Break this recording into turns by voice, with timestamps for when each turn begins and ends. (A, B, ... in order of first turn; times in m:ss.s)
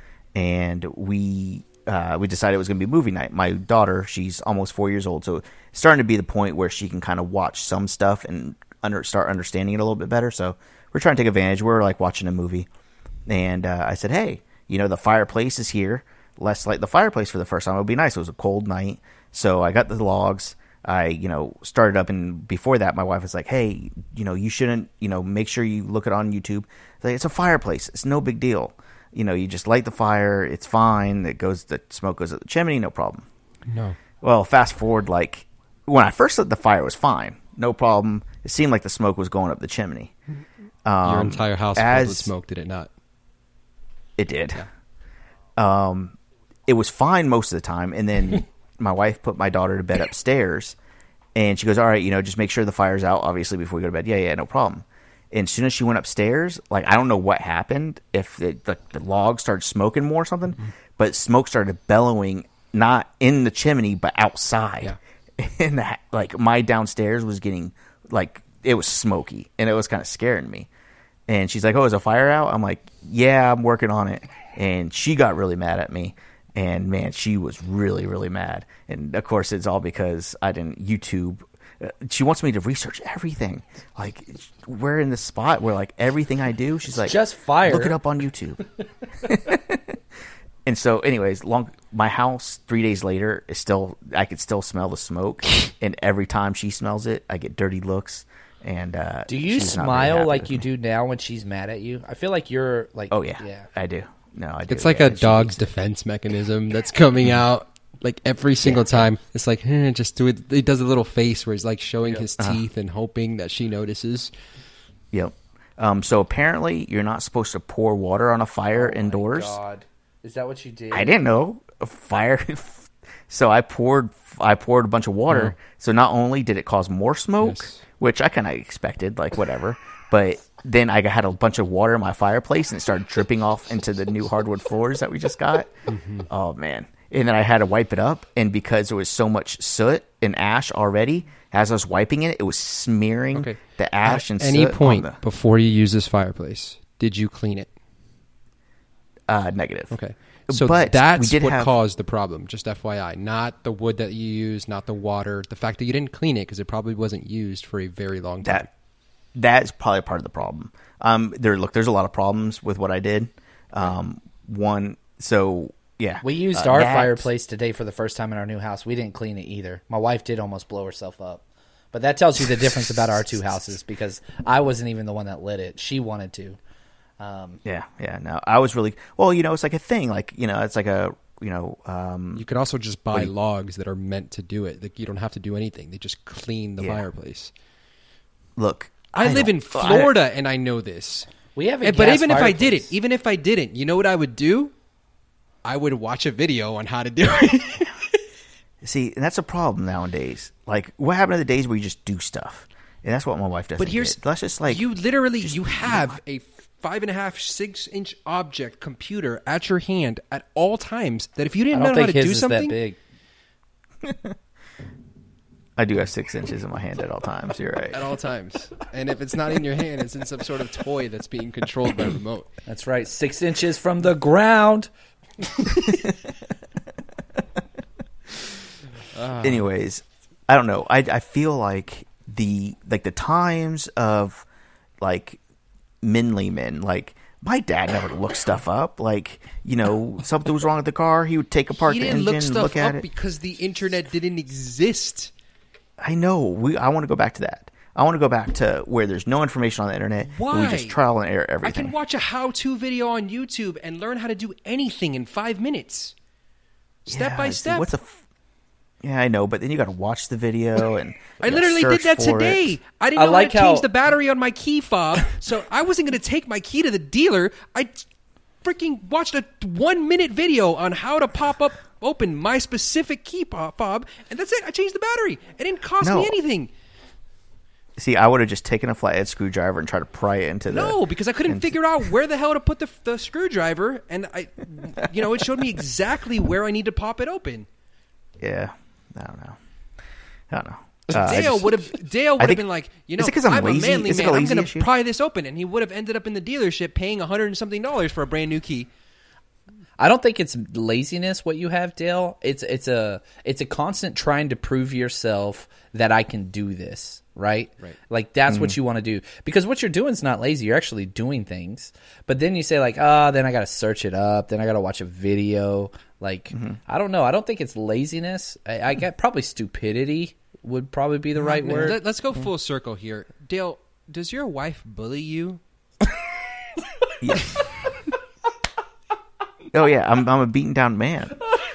0:00.4-0:12.7 A
0:13.3-0:33.3 A
0:33.7-0:34.0 B
0:34.2-0:40.1 A
0:40.8-0:42.3 A
0:41.0-0:42.9 B
0:44.2-0:44.6 A
0:45.6-0:46.2 A
0:46.7-0:50.8 A
0:51.4-1:10.7 A
1:11.3-1:28.6 A
1:27.0-1:28.0 C
1:29.2-1:30.0 A
1:30.6-1:40.6 A
1:39.3-1:43.7 C
1:43.1-1:45.6 A
1:44.7-1:54.3 B
1:48.6-1:49.0 A
1:55.1-1:59.6 A
1:58.7-2:01.1 C
2:00.9-2:15.7 A
2:05.3-2:05.6 B
2:07.4-2:07.8 B
2:15.9-2:16.3 B
2:16.3-2:25.2 A
2:23.3-2:27.7 B
2:29.3-2:30.0 A
2:29.9-2:38.7 B
2:30.5-2:31.7 A
2:39.4-2:47.3 A
2:46.2-2:56.6 C
2:57.2-2:57.6 C
2:57.6-3:02.5 A
3:02.4-3:07.5 B
3:06.8-3:07.0 A
3:08.6-3:10.1 A
3:09.2-3:11.3 B
3:11.6-3:12.9 C
3:11.8-3:14.7 B
3:15.6-3:18.0 B
3:18.8-3:24.9 A
3:23.8-3:32.8 B
3:25.4-3:26.2 A
3:31.7-3:33.0 C
3:35.8-3:38.0 A
3:37.9-3:42.5 B
3:42.7-3:44.9 C
3:49.1-3:49.7 B
3:49.4-3:54.4 A
3:55.0-3:55.4 A
3:56.0-4:03.0 A
4:01.8-4:05.3 B
4:06.0-4:12.0 A
4:10.2-4:11.0 B
4:11.6-4:16.1 B
4:17.1-4:17.9 B
4:17.1-4:18.2 A
4:19.0-4:22.8 A
4:21.4-4:28.0 B
4:23.2-4:23.9 C
4:28.6-4:36.7 B
4:36.0-4:36.4 A
4:38.0-4:41.8 A
4:40.7-4:47.7 B
4:48.4-4:49.6 A
4:50.5-4:52.6 A
4:51.1-4:58.9 B
4:53.2-4:54.9 A
5:00.0-5:22.0 C
5:08.5-5:08.8 A
5:16.5-5:16.8 A
5:21.4-5:25.6 B
5:27.2-5:27.6 A
5:29.7-5:31.4 A